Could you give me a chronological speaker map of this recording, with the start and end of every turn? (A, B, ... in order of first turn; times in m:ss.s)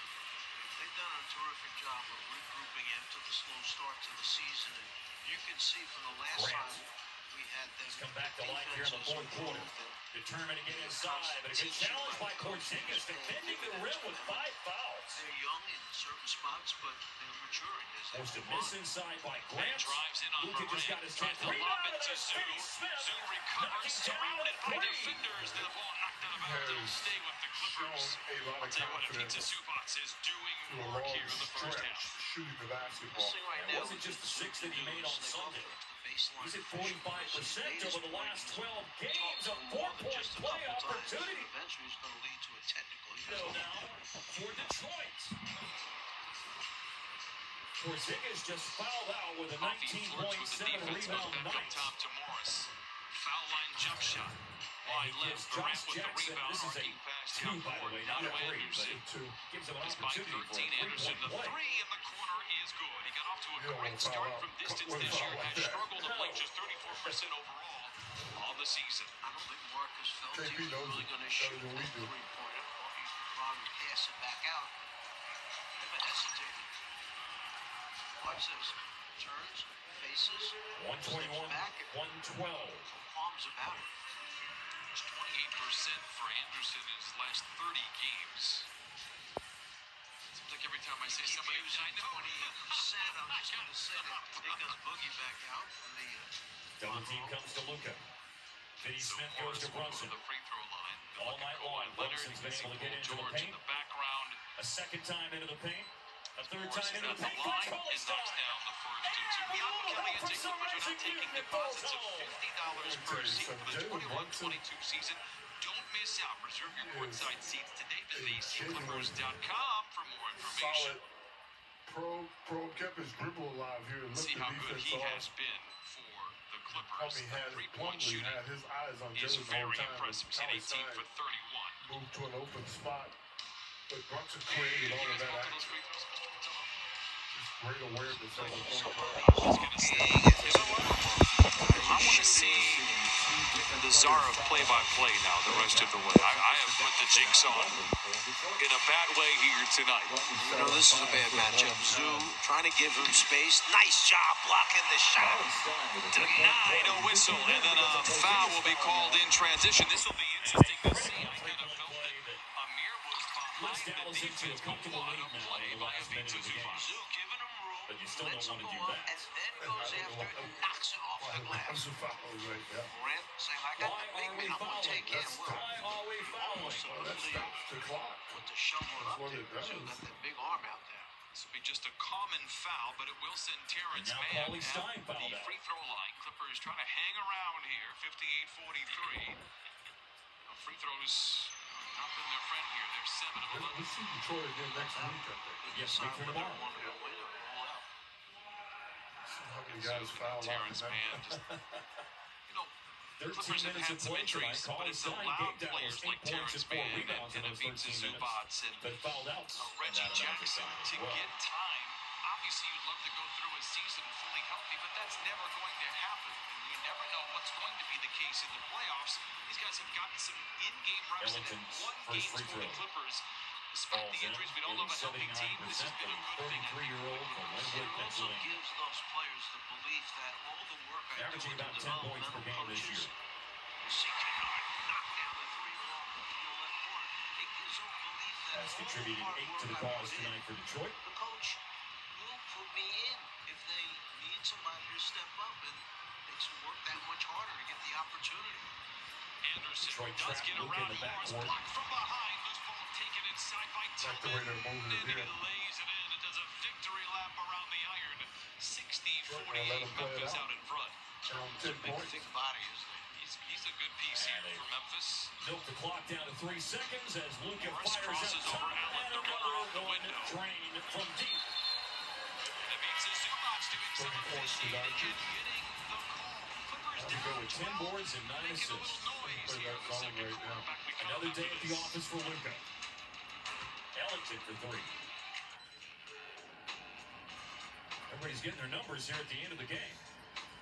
0:00.5-0:10.0 A
0:06.3-0:06.8 B
0:07.8-0:15.2 B
0:10.6-0:14.5 A
0:15.1-0:18.8 A
0:18.1-0:25.2 B
0:19.6-0:32.2 C
0:25.3-0:25.7 D
0:26.3-0:29.4 D
0:30.6-0:33.4 D
0:33.1-0:43.8 A
0:33.5-0:35.8 B
0:36.4-0:41.5 B
0:43.2-0:45.4 B
0:47.8-0:51.9 B
0:49.6-0:59.0 C
0:54.8-1:01.6 B
0:58.1-0:59.4 D
0:59.8-1:09.1 C
1:03.6-1:06.0 D
1:06.0-1:06.4 B
1:09.2-1:14.8 A
1:10.3-1:12.1 D
1:15.8-1:16.7 A
1:18.2-1:21.9 A
1:20.8-1:22.9 B
1:22.9-1:23.9 A
1:24.9-1:28.7 C
1:30.3-1:34.8 C
1:31.0-1:36.3 A
1:36.8-1:38.0 B
1:36.8-1:37.5 A
1:38.8-1:44.4 C
1:38.8-1:40.2 B
1:41.2-1:43.6 B
1:44.6-1:52.4 B
1:46.4-2:01.0 C
1:52.6-1:54.6 D
1:56.8-1:57.4 D
1:58.1-1:59.3 D
2:00.3-2:01.1 D
2:01.9-2:05.3 D
2:04.1-2:08.4 C
2:06.7-2:11.1 D
2:09.1-2:11.8 C
2:11.8-2:13.2 D
2:13.9-2:15.8 D
2:14.5-2:16.7 C
2:17.3-2:19.5 D
2:18.1-2:23.0 A
2:18.2-2:21.2 C
2:21.6-2:28.7 B
2:21.8-2:23.0 C
2:23.6-2:27.9 C
2:28.6-2:30.2 C
2:30.0-2:32.3 B
2:30.4-2:35.6 A
2:30.8-2:31.2 D
2:35.2-2:39.4 B
2:36.1-2:47.0 C
2:40.4-2:42.4 B
2:43.6-2:46.9 B
2:46.6-2:51.9 A
2:47.9-2:49.2 B
2:49.6-2:52.9 D
2:52.9-3:01.1 A
2:53.8-2:56.9 B
2:55.1-2:55.6 D
2:56.8-2:58.4 D
2:58.9-3:00.1 D
3:01.3-3:09.4 C
3:03.9-3:05.6 B
3:10.5-3:13.9 C
3:13.4-3:15.7 D
3:14.7-3:17.9 A
3:15.7-3:16.6 B
3:19.2-3:21.2 D
3:19.6-3:21.4 C
3:22.5-3:22.7 C
3:23.2-3:31.3 B
3:23.3-3:48.1 C
3:41.2-3:42.8 B
3:43.9-3:48.6 B
3:47.7-3:53.1 A
3:51.1-3:53.1 B
3:53.8-4:00.4 A
3:58.5-4:01.0 B
4:01.0-4:08.7 A
4:09.4-4:21.0 C
4:09.8-4:11.6 B
4:14.0-4:15.3 D
4:19.3-4:20.5 D
4:21.3-4:22.2 D
4:21.6-4:23.2 A
4:23.1-4:25.3 C
4:24.1-4:24.7 B
4:25.4-4:31.5 B
4:27.6-4:30.4 C
4:32.6-4:42.2 C
4:33.9-4:35.2 D
4:37.0-4:37.3 D
4:37.0-4:39.1 B
4:39.2-4:40.7 D
4:41.0-4:42.6 B
4:43.9-4:44.9 B
4:48.1-4:50.0 B